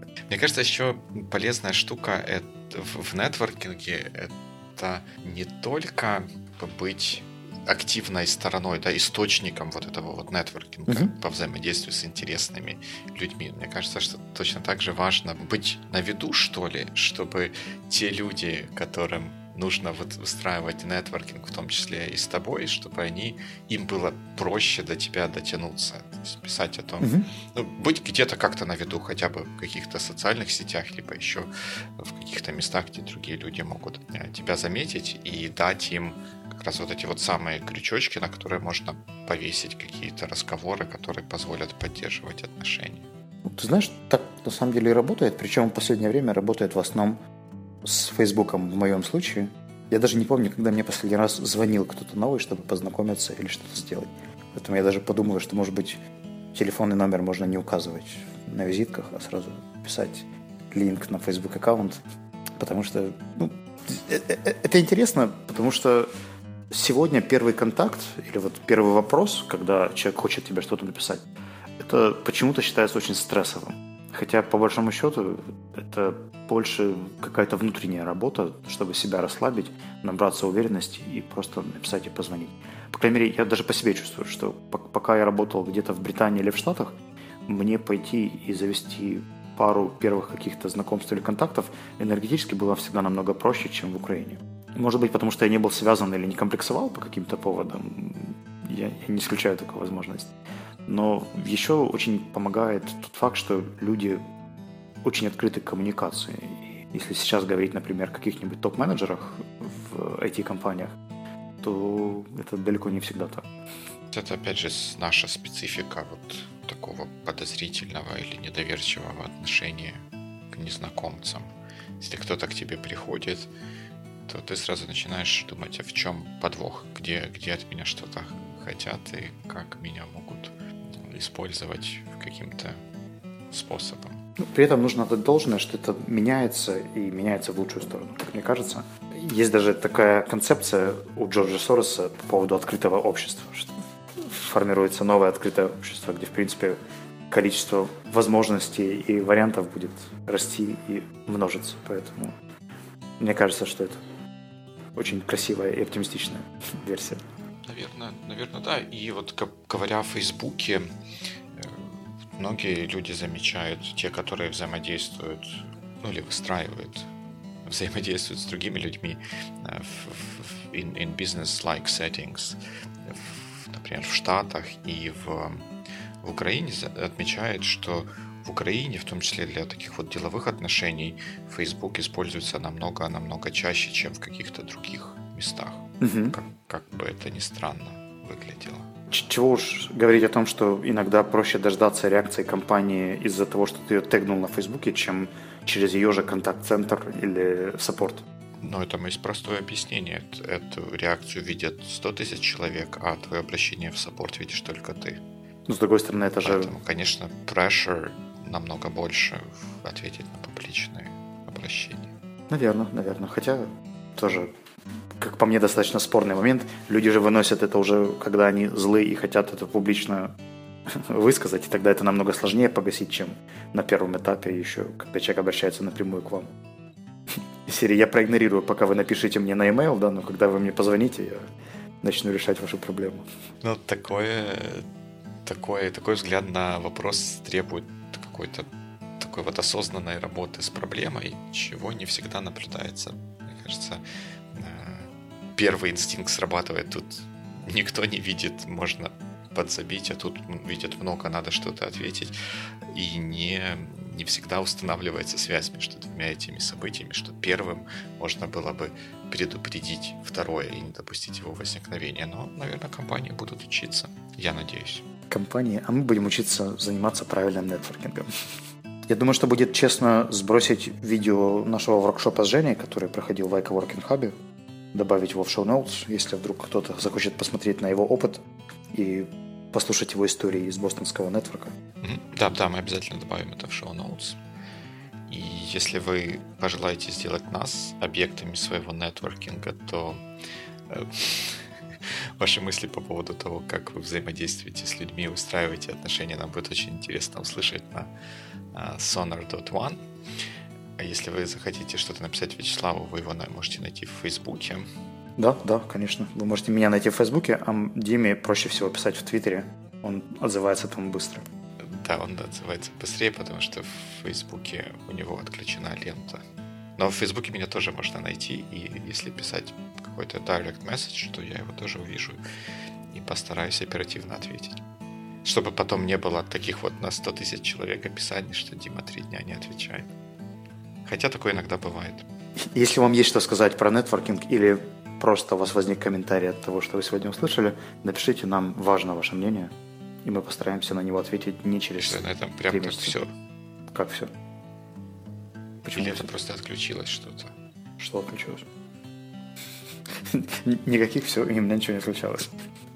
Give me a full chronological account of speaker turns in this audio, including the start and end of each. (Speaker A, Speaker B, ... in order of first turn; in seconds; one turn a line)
Speaker A: 0.3-43.1
Speaker B: 10.9-11.1
Speaker B: 27.0-27.3
Speaker B: 43.5-47.2
Speaker B: 47.8-56.0
Speaker B: 56.5-62.0
Speaker B: 62.6-66.1
Speaker B: 66.7-71.2
Speaker B: 71.8-86.9
Speaker B: 87.5-100.3
Speaker B: 100.9-104.2
Speaker B: 105.0-111.0
Speaker B: 111.6-113.5
Speaker A: 114.1-123.5
Speaker A: 124.3-132.8
Speaker A: 133.5-134.2
Speaker B: 134.4-146.8
Speaker B: 147.3-152.3
Speaker B: 153.2-154.0
Speaker B: 155.0-157.2
Speaker A: 157.6-160.9
Speaker A: 161.5-167.1
Speaker A: 167.7-175.7
Speaker A: 176.2-188.9
Speaker B: 186.0-186.4
Speaker B: 189.1-198.2
Speaker A: 198.6-205.2
Speaker B: 205.7-206.7
Speaker A: 206.4-212.1
Speaker B: 212.5-214.5
Speaker B: 215.2-220.3
Speaker B: 220.9-226.5
Speaker B: 227.7-231.5
Speaker B: 232.0-233.2
Speaker A: 233.6-234.9
Speaker A: 235.4-238.7
Speaker A: 239.2-252.3
Speaker A: 252.9-265.1
Speaker B: 265.3-268.3
Speaker B: 269.1-274.4
Speaker B: 274.9-281.7
Speaker A: 282.0-284.4
Speaker A: 285.3-290.2
Speaker A: 290.9-298.1
Speaker A: 298.7-300.0
Speaker A: 301.0-304.9
Speaker B: 305.4-311.5
Speaker A: 311.8-316.4
Speaker A: 317.0-322.4
Speaker A: 323.1-324.8
Speaker A: 325.4-330.1
Speaker A: 331.1-332.2
Speaker B: 332.7-339.7
Speaker B: 340.2-343.2
Speaker A: 342.0-343.3
Speaker B: 343.9-344.3
Speaker B: 345.9-346.3
Speaker A: 345.9-347.5
Speaker B: 348.0-348.7
Speaker B: 350.3-352.6